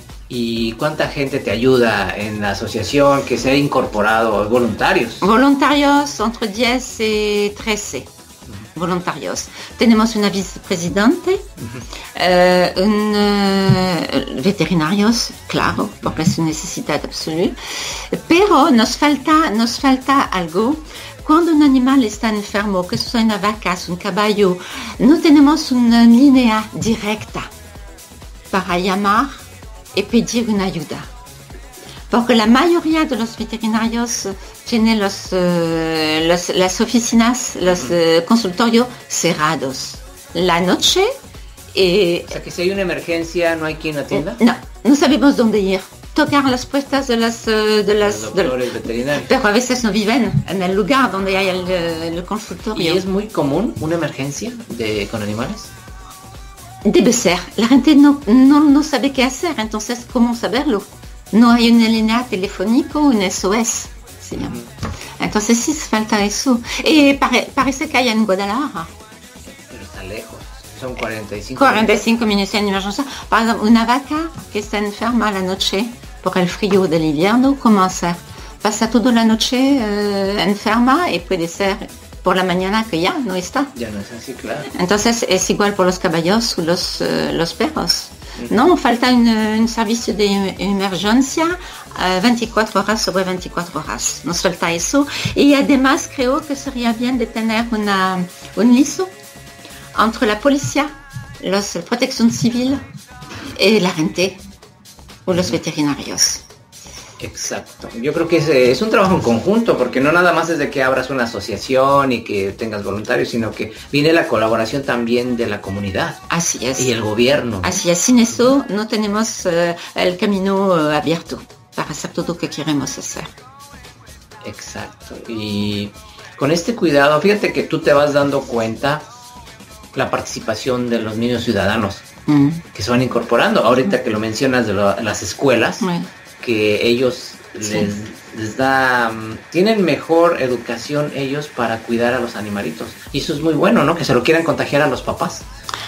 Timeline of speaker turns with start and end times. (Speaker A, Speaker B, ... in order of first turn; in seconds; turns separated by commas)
Speaker A: 0.3-5.3, Speaker B: 5.2-8.1, Speaker B: 8.7-11.4, Speaker A: 11.6-11.8, Speaker B: 12.1-27.5, Speaker A: 15.7-16.3, Speaker B: 28.5-29.4, Speaker B: 29.9-31.1, Speaker B: 32.1-41.1, Speaker A: 37.7-37.9, Speaker B: 41.7-42.4, Speaker A: 42.3-44.4, Speaker B: 44.1-53.0, Speaker A: 48.0-49.4, Speaker A: 52.7-55.7, Speaker B: 56.8-64.6, Speaker A: 64.3-64.7, Speaker B: 65.2-68.9, Speaker A: 69.5-72.0, Speaker B: 71.5-83.7, Speaker A: 83.7-84.7, Speaker B: 84.7-99.1, Speaker B: 99.9-102.8, Speaker B: 103.5-104.4, Speaker B: 105.3-106.4, Speaker A: 107.2-117.8, Speaker B: 116.3-116.9, Speaker B: 117.6-123.3, Speaker A: 124.4-129.1, Speaker A: 129.9-132.0, Speaker B: 132.3-132.6, Speaker A: 132.7-145.5, Speaker B: 135.8-136.1